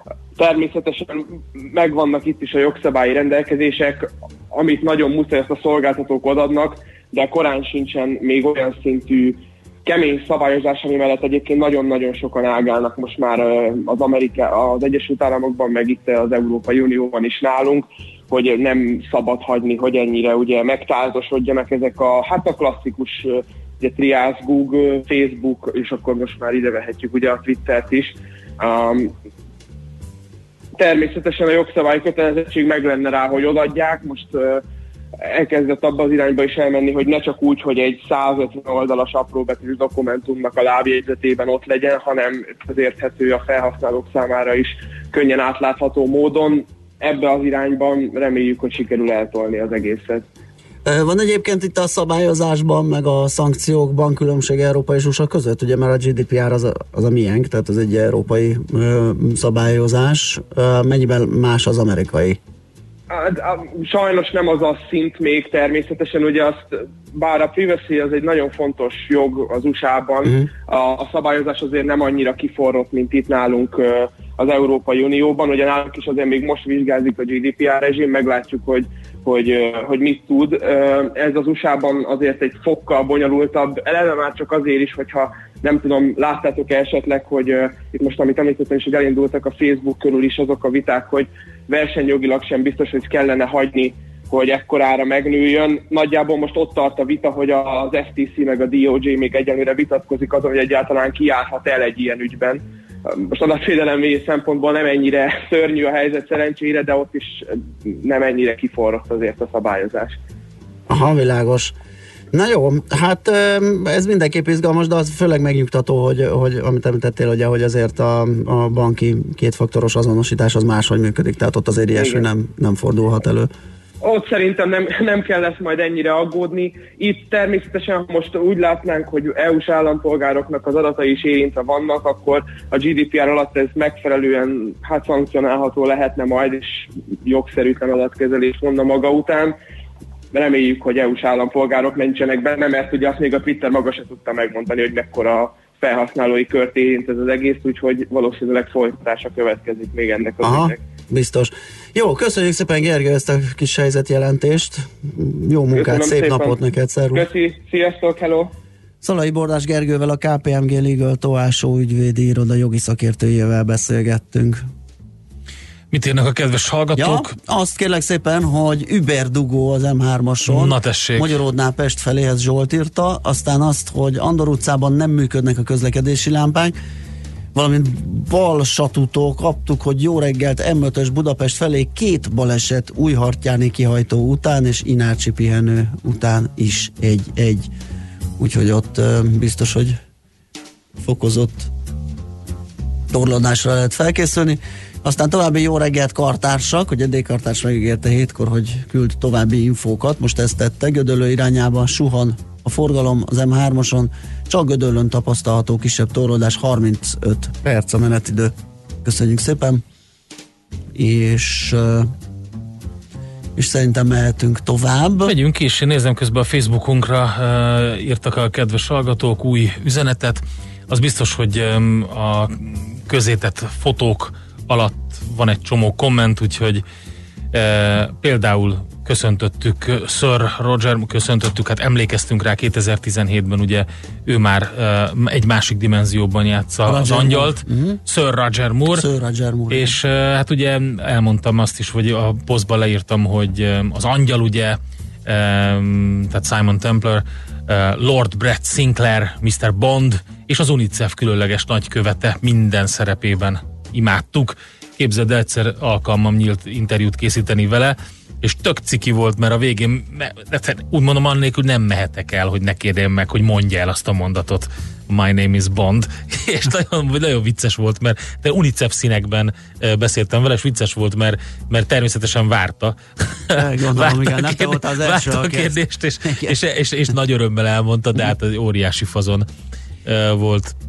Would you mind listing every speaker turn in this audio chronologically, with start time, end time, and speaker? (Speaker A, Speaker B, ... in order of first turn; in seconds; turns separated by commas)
Speaker A: 0.4-29.1, Speaker A: 30.8-34.6, Speaker A: 35.2-50.2, Speaker B: 50.8-62.4, Speaker A: 63.1-110.2, Speaker B: 110.9-111.7, Speaker B: 112.3-123.5, Speaker A: 121.9-122.3, Speaker A: 124.0-139.6, Speaker A: 140.3-150.8, Speaker B: 150.4-157.3, Speaker A: 155.7-156.6, Speaker A: 157.1-158.5, Speaker B: 159.0-164.6, Speaker C: 165.9-167.3, Speaker B: 166.9-176.8, Speaker C: 170.4-171.4, Speaker B: 177.5-187.7, Speaker B: 188.4-190.0, Speaker B: 191.0-191.7, Speaker B: 193.1-208.5, Speaker B: 209.0-209.8, Speaker B: 210.9-212.1, Speaker B: 213.6-215.3, Speaker C: 215.2-226.8, Speaker C: 227.5-239.0, Speaker B: 236.8-238.0, Speaker B: 238.9-240.0, Speaker C: 239.7-279.5, Speaker B: 273.5-276.6, Speaker C: 280.1-280.7